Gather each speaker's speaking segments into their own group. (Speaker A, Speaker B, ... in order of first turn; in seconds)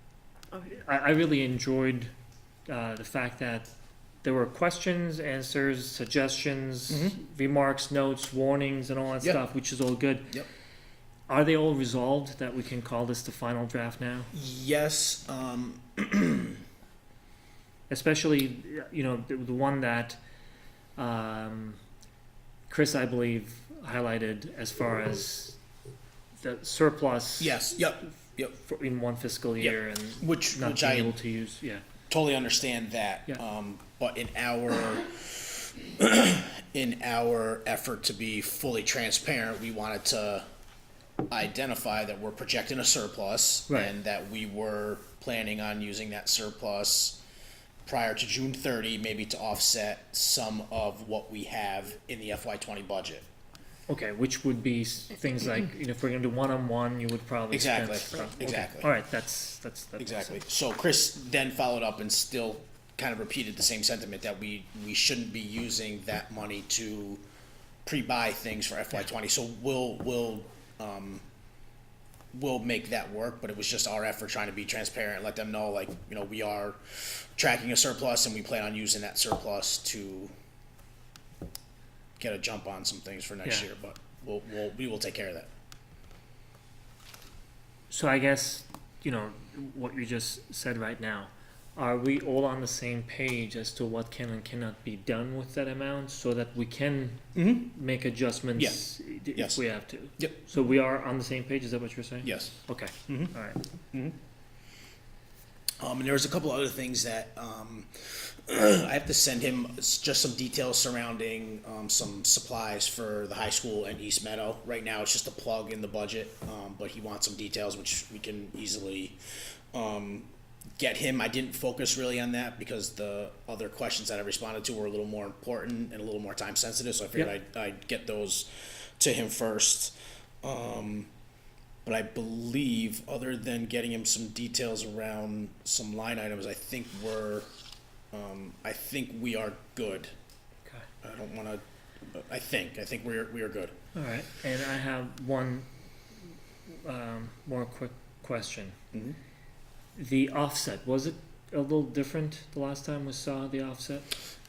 Speaker A: 0.5-2.1, 2.7-3.7, 4.2-10.4, 11.3-14.3, 17.9-20.2, 21.0-21.8, 22.7-25.6, 26.4-27.8, 28.5-31.8, 53.9-60.4, 87.9-103.6, 143.9-145.7, 146.8-148.8, 150.0-154.1
Speaker B: 6.9-7.2, 14.3-16.6, 27.4-28.5, 29.6-31.2, 32.1-40.5, 41.3-47.2, 47.9-53.3, 57.5-58.9, 60.0-67.2, 67.8-71.2, 72.3-80.3, 82.2-85.5, 97.3-97.7, 98.6-98.8, 99.3-99.6, 102.2-102.5, 103.1-103.3, 105.8-119.2, 119.7-131.1, 131.8-137.5, 138.1-140.1, 141.0-143.7